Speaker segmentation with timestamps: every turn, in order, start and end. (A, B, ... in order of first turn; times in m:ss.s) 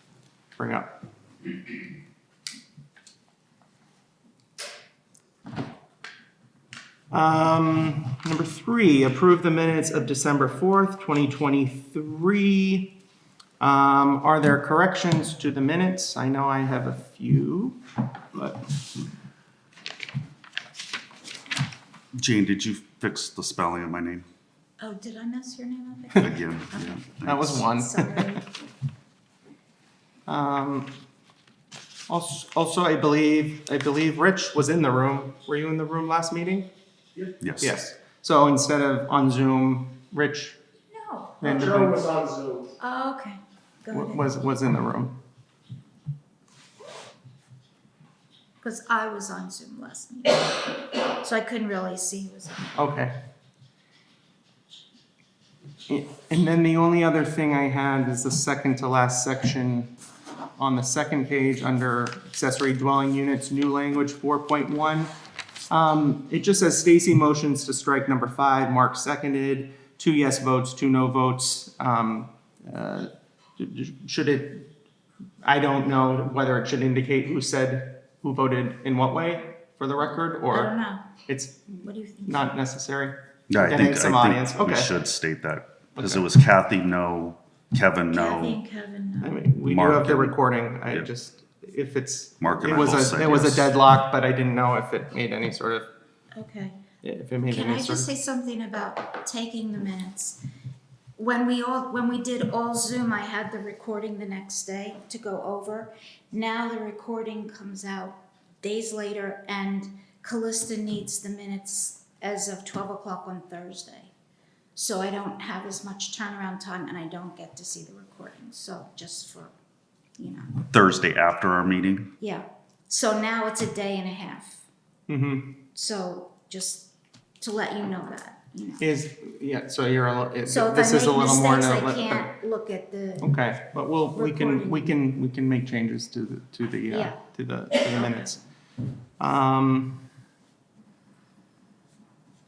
0:00.6-0:01.0 A
0:07.1-0:13.0 A
0:13.6-0:17.8 A
0:18.3-0:18.6 A
0:22.2-0:24.2 B
0:24.8-0:26.9 C
0:26.2-0:27.7 B
0:27.2-0:28.4 A
0:27.6-0:28.4 C
0:30.3-0:31.0 A
0:32.1-0:36.7 A
0:37.4-0:37.7 B
0:37.6-0:40.6 A
0:40.9-0:41.7 C
0:41.4-0:42.1 A
0:42.8-0:44.3 C
0:43.9-0:45.2 A
0:48.6-0:52.7 C
0:52.8-0:53.1 A
0:55.9-0:59.9 A
1:00.6-1:05.1 A
1:05.7-1:14.7 A
1:15.4-1:20.8 A
1:20.5-1:21.1 C
1:21.3-1:25.0 A
1:21.7-1:22.5 C
1:23.5-1:28.6 B
1:26.0-1:26.2 A
1:28.1-1:29.4 C
1:29.2-1:35.9 A
1:29.6-1:30.4 B
1:32.4-1:33.7 B
1:36.3-1:36.8 C
1:37.0-1:38.1 A
1:37.5-1:40.4 C
1:41.2-1:54.1 C
1:54.8-1:59.5 C
2:00.2-2:00.6 C
2:00.7-2:02.1 B
2:02.2-2:04.6 C
2:05.1-2:05.6 A
2:05.7-2:08.9 C
2:08.8-2:12.3 A
2:10.4-2:13.4 C
2:13.2-2:18.4 A
2:14.1-2:15.0 C
2:16.9-2:17.2 C
2:17.8-2:18.3 C
2:19.2-2:20.0 A